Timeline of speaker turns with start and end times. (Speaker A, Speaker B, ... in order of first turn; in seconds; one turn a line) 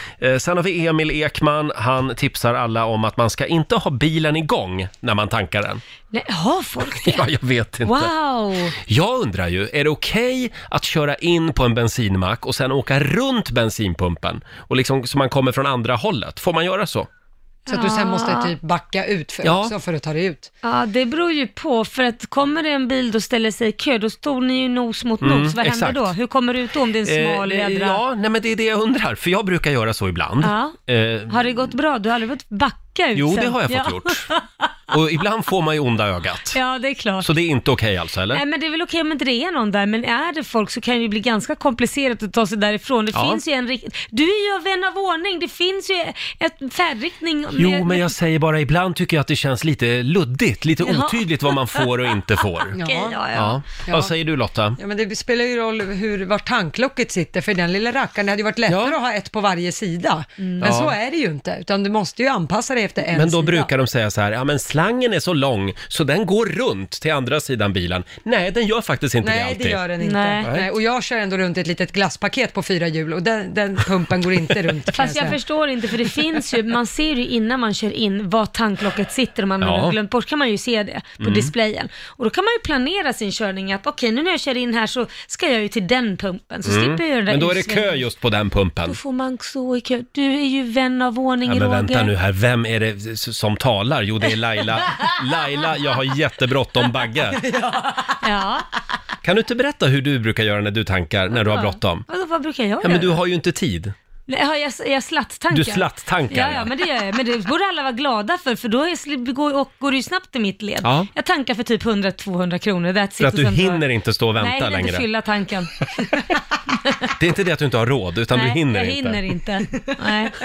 Speaker A: 0.2-5.8
Speaker B: 6.1-7.3
Speaker A: 6.8-8.1
Speaker B: 7.8-8.8
Speaker A: 8.8-17.1
Speaker B: 17.7-18.5
Speaker C: 17.7-20.5
Speaker A: 19.4-19.7
Speaker B: 20.6-28.0
Speaker A: 25.2-26.1
Speaker A: 27.1-31.4
Speaker B: 30.4-30.8
Speaker B: 31.3-34.7
Speaker A: 33.2-34.3
Speaker A: 34.9-36.6
Speaker B: 36.5-37.3
Speaker A: 37.2-38.4
Speaker B: 38.3-48.1
Speaker A: 43.1-43.4
Speaker A: 47.6-52.8
Speaker B: 50.8-53.6
Speaker C: 52.8-53.2
Speaker A: 53.3-54.8
Speaker C: 53.9-54.1
Speaker C: 54.8-63.7
Speaker A: 58.7-59.0
Speaker B: 60.4-60.7
Speaker A: 60.6-61.0
Speaker A: 63.1-69.8
Speaker C: 69.2-75.4
Speaker B: 70.0-70.5
Speaker A: 70.5-70.7
Speaker B: 74.9-88.0
Speaker A: 79.6-80.0
Speaker A: 81.2-81.5
Speaker A: 86.7-89.0
Speaker B: 88.9-92.1
Speaker A: 91.5-97.4
Speaker C: 97.4-98.2
Speaker B: 98.2-98.7
Speaker A: 99.2-102.1
Speaker B: 101.3-103.2
Speaker A: 102.8-103.9
Speaker B: 104.3-113.8
Speaker A: 105.5-106.7
Speaker A: 110.8-111.1
Speaker A: 113.2-115.0
Speaker B: 114.4-115.7
Speaker A: 117.1-119.2
Speaker B: 118.3-120.3